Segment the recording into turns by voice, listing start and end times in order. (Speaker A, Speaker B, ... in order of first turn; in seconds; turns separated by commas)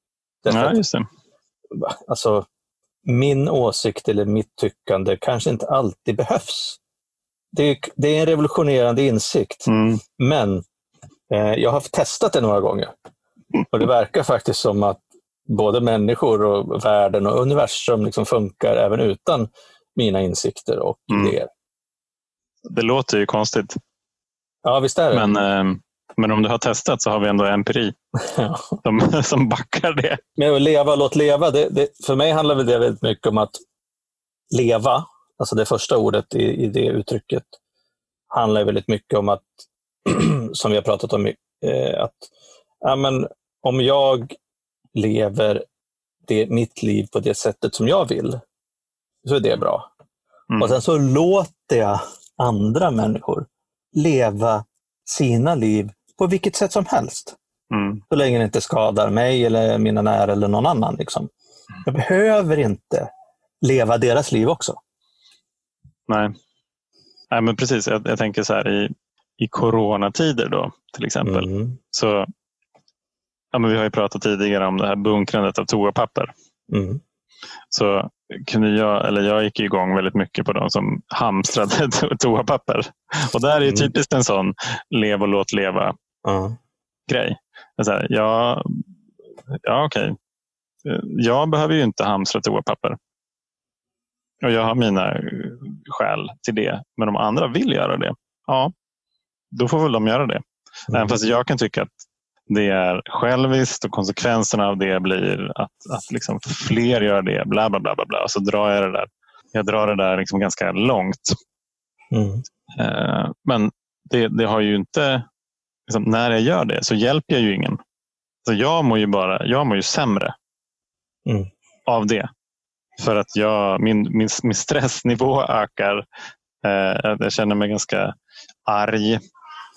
Speaker A: 0.4-0.8, Speaker B: 0.5-1.1, Speaker A: 1.7-2.5, Speaker A: 3.0-6.8, Speaker A: 7.5-9.7, Speaker B: 9.7-10.0, Speaker A: 10.2-10.6, Speaker A: 11.3-12.9, Speaker A: 13.7-21.5, Speaker B: 21.1-21.4, Speaker B: 22.7-23.8, Speaker A: 24.6-25.3, Speaker B: 25.1-27.9, Speaker A: 28.3-28.8, Speaker B: 28.8-30.2, Speaker A: 30.4-33.6, Speaker A: 34.5-37.6, Speaker A: 38.3-42.3, Speaker A: 42.8-44.4, Speaker A: 44.9-45.6, Speaker A: 46.3-48.4, Speaker A: 49.2-49.9, Speaker A: 50.6-57.4, Speaker B: 57.7-58.0, Speaker A: 58.1-61.3, Speaker A: 61.9-64.8, Speaker B: 66.1-66.3, Speaker B: 67.3-72.3, Speaker A: 71.2-71.8, Speaker B: 73.5-76.3, Speaker A: 76.7-77.0, Speaker B: 77.7-86.0, Speaker A: 86.2-86.6, Speaker B: 87.1-88.9, Speaker B: 89.5-90.2, Speaker B: 90.8-93.0, Speaker B: 94.4-98.7, Speaker B: 99.5-101.9, Speaker B: 102.5-111.4, Speaker A: 112.1-112.4, Speaker B: 112.8-115.3, Speaker B: 115.9-117.8, Speaker B: 118.5-120.3, Speaker B: 121.9-122.3, Speaker B: 123.0-126.0, Speaker B: 126.6-128.1, Speaker B: 128.7-129.2